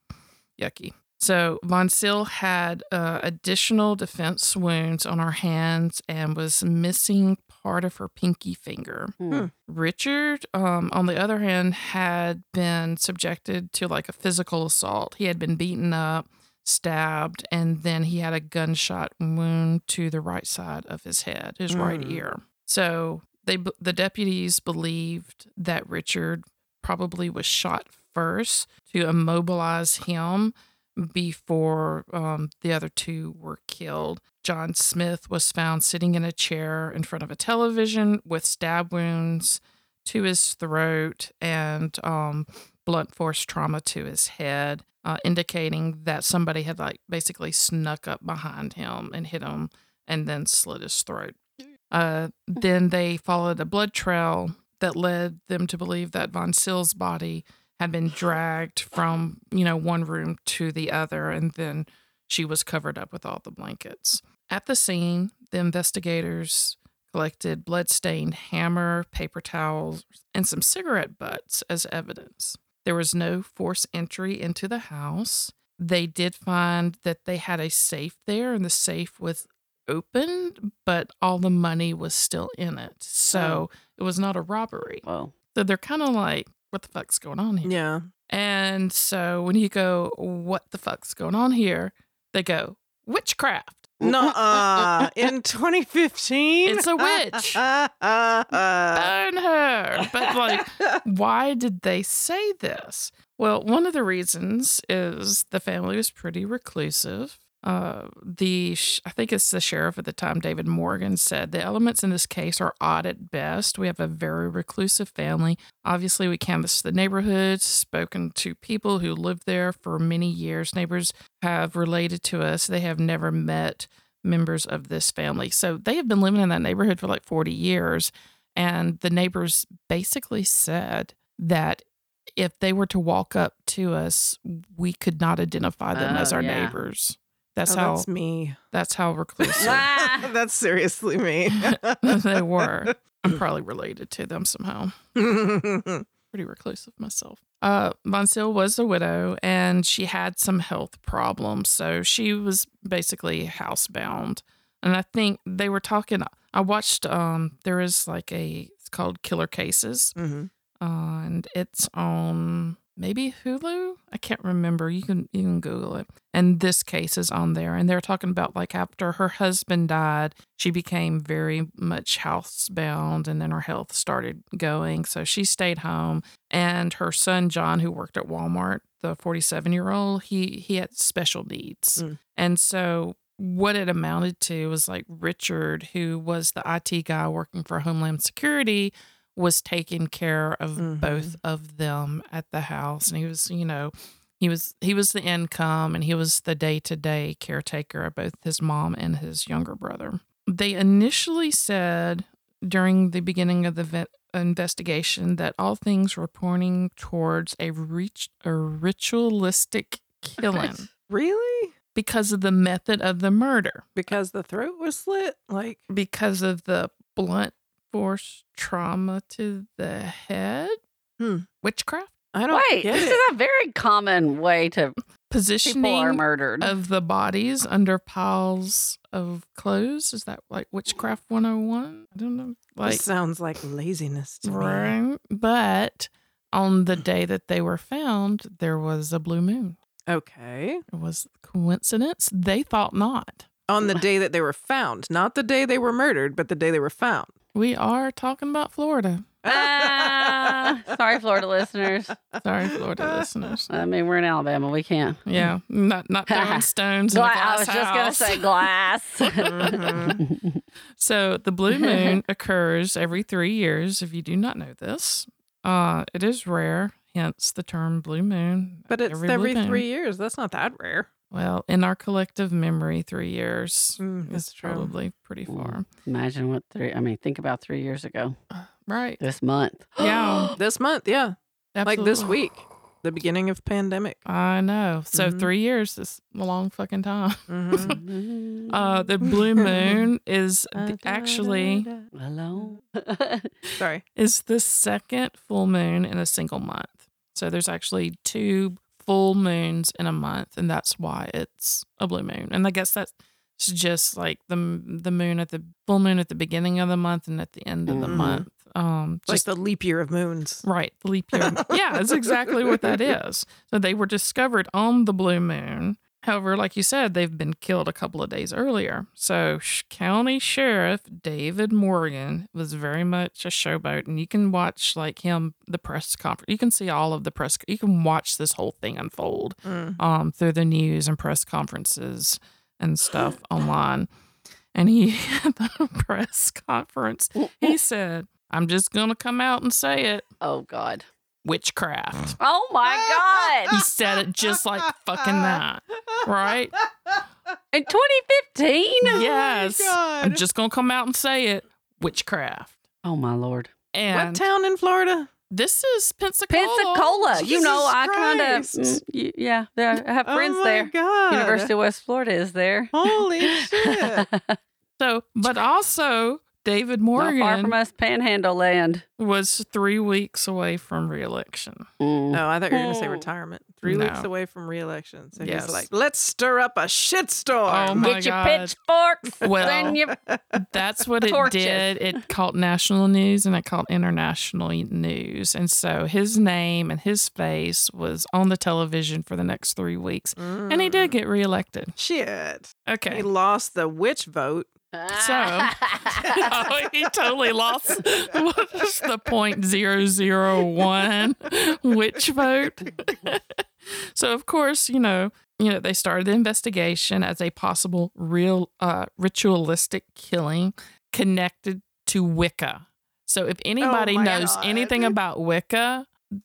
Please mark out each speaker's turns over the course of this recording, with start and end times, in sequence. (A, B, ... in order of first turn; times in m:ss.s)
0:00.6-0:51.4 A
0:09.2-0:09.5 B
0:21.7-0:22.2 C
0:51.9-1:27.7 A
1:23.3-1:23.6 B
1:25.1-1:25.3 B
1:27.6-1:28.1 C
1:28.3-1:33.9 A
1:34.0-1:35.1 B
1:34.0-1:39.1 C
1:36.6-1:37.6 A
1:39.0-2:11.8 A
1:40.0-1:41.0 C
2:12.4-2:18.1 A
2:15.9-2:16.8 B
2:17.7-2:18.6 C
2:18.7-2:19.8 A
2:19.4-2:23.4 C
2:19.6-2:20.3 B
2:21.6-2:25.0 A
2:25.2-2:26.0 C
2:26.3-2:40.2 A
2:40.2-2:40.5 C
2:40.8-3:30.9 A
3:10.8-3:11.4 C
3:30.4-3:30.8 B
3:31.1-3:31.7 C
3:32.0-3:33.9 A
3:34.0-3:35.8 C
3:35.9-3:40.8 A
3:41.2-3:41.5 C
3:41.6-3:42.1 A
3:42.3-3:43.2 C
3:42.5-3:45.0 B
3:45.3-3:53.0 A
3:45.6-3:46.7 B
3:52.8-3:54.9 C
3:54.4-3:59.8 A
4:00.1-4:00.8 C
4:00.9-4:03.5 A
4:03.7-4:07.3 C
4:07.5-4:09.3 A
4:09.4-4:10.9 C
4:09.5-4:12.2 B
4:12.3-4:13.3 C
4:12.4-4:13.7 A
4:13.7-4:15.3 B
4:15.3-4:18.7 A
4:16.3-4:20.6 B
4:19.2-4:20.1 A
4:19.4-4:20.2 C
4:21.0-4:29.8 A
4:21.7-4:22.2 B
4:28.9-4:31.1 C
4:31.3-4:35.9 A
4:34.0-4:34.9 C
4:35.5-4:38.4 B
4:38.5-4:39.2 A
4:39.2-4:40.6 B
4:40.0-4:40.6 A
4:40.6-4:44.2 C
4:41.7-4:42.4 A
4:44.2-4:48.0 A
4:45.1-4:45.5 C
4:47.5-4:48.0 C
4:47.8-4:49.1 B
4:48.7-4:51.9 A
4:49.3-4:50.1 C
4:50.8-4:52.8 C
4:52.1-4:53.7 B
4:53.8-4:54.0 C
4:54.2-5:09.4 A
5:07.9-5:08.3 B
5:08.0-5:08.5 C
5:09.3-5:10.6 C
5:10.6-5:34.1 A
5:11.3-5:13.1 C
5:29.6-5:30.0 C
5:34.7-5:40.2 A
5:37.4-5:37.7 B
5:40.4-5:41.0 B
5:41.4-5:42.4 A
5:42.4-5:43.8 B
5:42.9-5:43.7 C
5:43.7-5:46.7 A
5:45.2-5:45.6 C
5:46.8-5:47.2 C
5:47.7-5:49.2 B
5:49.0-5:50.4 C
5:49.1-5:52.8 A
5:53.0-5:53.7 B
5:53.9-5:54.5 A
5:54.1-5:55.3 C
5:55.5-5:57.5 A
5:56.5-6:04.6 B
5:57.3-5:59.0 C
6:00.3-6:01.7 C
6:02.9-6:04.3 C
6:05.0-6:07.8 A
6:07.2-6:09.0 B
6:09.2-6:11.8 A
6:12.0-6:13.2 B
6:12.3-6:18.1 C
6:13.8-6:14.3 A
6:15.4-6:15.9 A
6:17.7-6:18.8 A
6:18.0-6:20.2 B
6:19.4-6:20.0 A
6:19.5-6:20.6 C
6:20.5-6:32.0 A
6:21.2-6:22.2 B
6:30.4-6:31.2 C
6:32.0-6:34.7 C
6:32.9-6:33.3 A
6:34.9-6:36.5 B
6:35.1-6:56.1 A
6:53.8-6:55.1 C